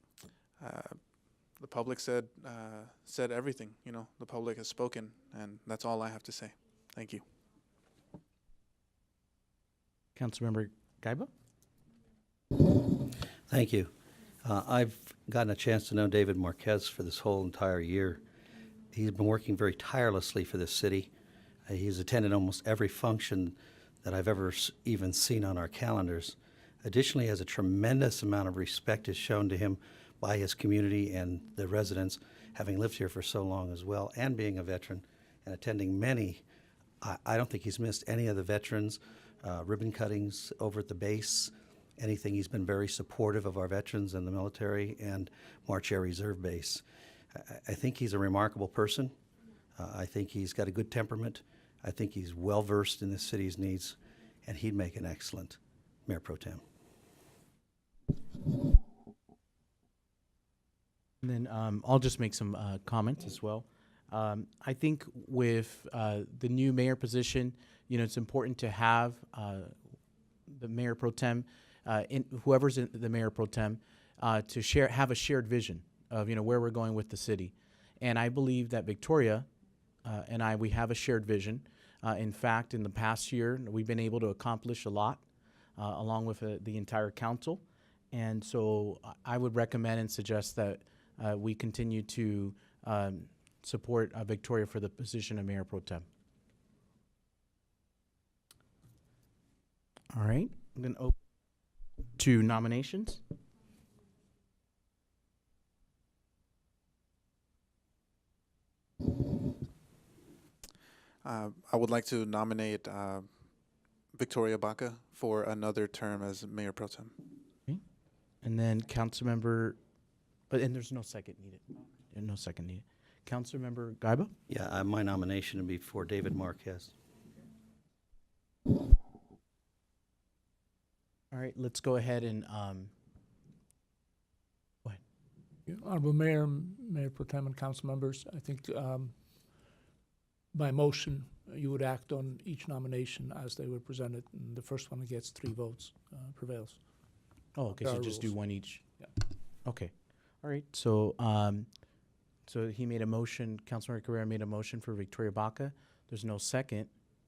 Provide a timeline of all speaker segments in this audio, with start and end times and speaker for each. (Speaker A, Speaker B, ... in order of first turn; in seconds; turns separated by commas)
Speaker A: 0.6-7.2, Speaker B: 10.2-11.3, Speaker C: 13.5-13.9, Speaker C: 14.4-18.2, Speaker C: 18.9-21.1, Speaker C: 21.6-36.4, Speaker C: 37.0-46.8, Speaker C: 47.3-49.1, Speaker C: 49.8-56.6, Speaker B: 61.2-69.7, Speaker B: 70.5-79.5, Speaker B: 80.0-85.2, Speaker B: 85.8-96.0, Speaker B: 100.1-101.1, Speaker B: 102.2-103.2, Speaker A: 111.2-113.3, Speaker A: 114.1-117.2, Speaker B: 118.4-119.8, Speaker B: 120.5-124.3, Speaker C: 124.5-126.9, Speaker B: 131.3-132.9, Speaker D: 135.7-139.6, Speaker D: 140.5-147.1, Speaker B: 147.5-148.8, Speaker D: 147.7-149.1, Speaker B: 149.6-151.7, Speaker B: 152.4-156.9